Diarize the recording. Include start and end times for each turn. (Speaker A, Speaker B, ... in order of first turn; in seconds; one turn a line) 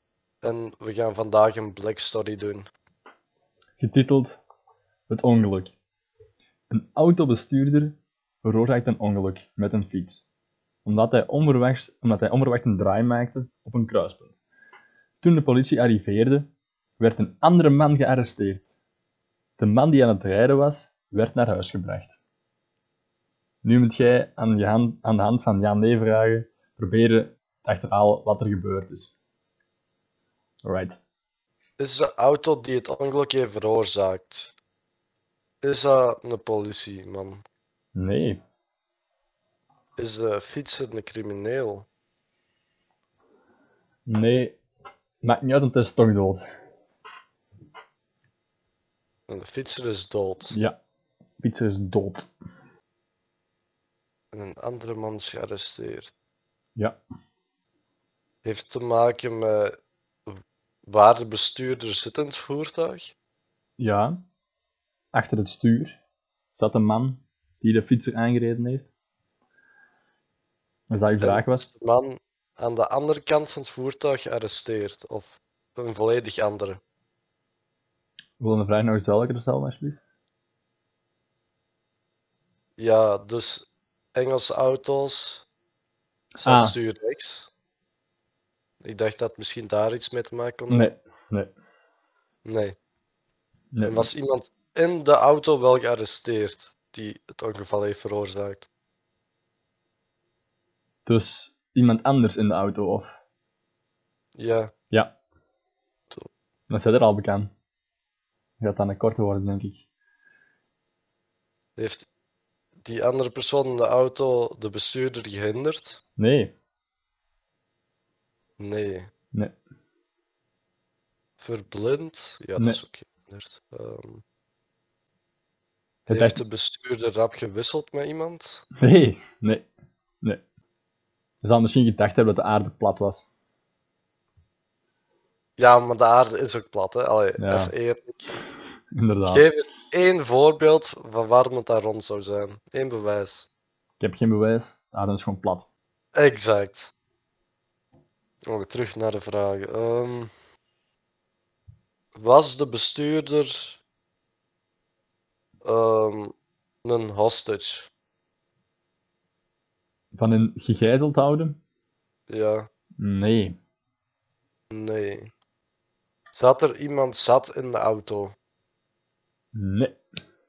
Speaker A: 0.4-2.7
Speaker B: 3.8-4.4
Speaker B: 5.1-5.8
Speaker B: 6.7-10.2
Speaker B: 10.8-14.3
Speaker B: 15.2-18.7
Speaker B: 19.6-22.1
Speaker B: 23.6-29.1
Speaker B: 30.6-30.9
Speaker A: 31.8-34.5
Speaker A: 35.6-37.4
Speaker B: 38.0-38.4
Speaker A: 40.0-41.9
Speaker B: 44.1-44.6
Speaker B: 45.2-46.5
Speaker A: 49.3-50.6
Speaker B: 51.4-52.3
Speaker A: 54.3-56.1
Speaker A: 58.4-59.7
Speaker A: 60.3-63.1
Speaker B: 63.8-64.2
Speaker B: 65.1-66.0
Speaker B: 66.6-68.9
Speaker B: 70.9-71.7
Speaker A: 71.2-76.8
Speaker B: 78.4-80.0
Speaker A: 82.8-85.5
Speaker A: 86.4-87.5
Speaker B: 86.4-86.8
Speaker A: 88.8-90.9
Speaker B: 90.7-91.5
Speaker A: 92.5-92.8
Speaker B: 93.7-94.1
Speaker A: 93.8-98.7
Speaker B: 101.1-103.2
Speaker A: 104.4-104.7
Speaker B: 106.7-107.5
Speaker B: 108.6-109.8
Speaker A: 111.8-112.1
Speaker A: 112.8-116.0
Speaker B: 116.2-116.5
Speaker A: 118.6-119.1
Speaker A: 121.4-124.2
Speaker B: 126.1-126.4
Speaker A: 126.1-128.6
Speaker B: 128.8-129.7
Speaker B: 131.4-133.2
Speaker A: 135.6-138.4
Speaker B: 137.4-137.7
Speaker B: 139.0-139.5
Speaker A: 139.3-143.5
Speaker B: 144.0-145.7
Speaker A: 146.2-146.9
Speaker A: 148.5-150.3
Speaker A: 152.2-153.8
Speaker A: 155.6-157.9
Speaker B: 160.1-161.6
Speaker A: 162.3-162.7
Speaker B: 163.0-163.6
Speaker A: 164.7-165.3
Speaker A: 166.4-168.3
Speaker B: 169.5-170.0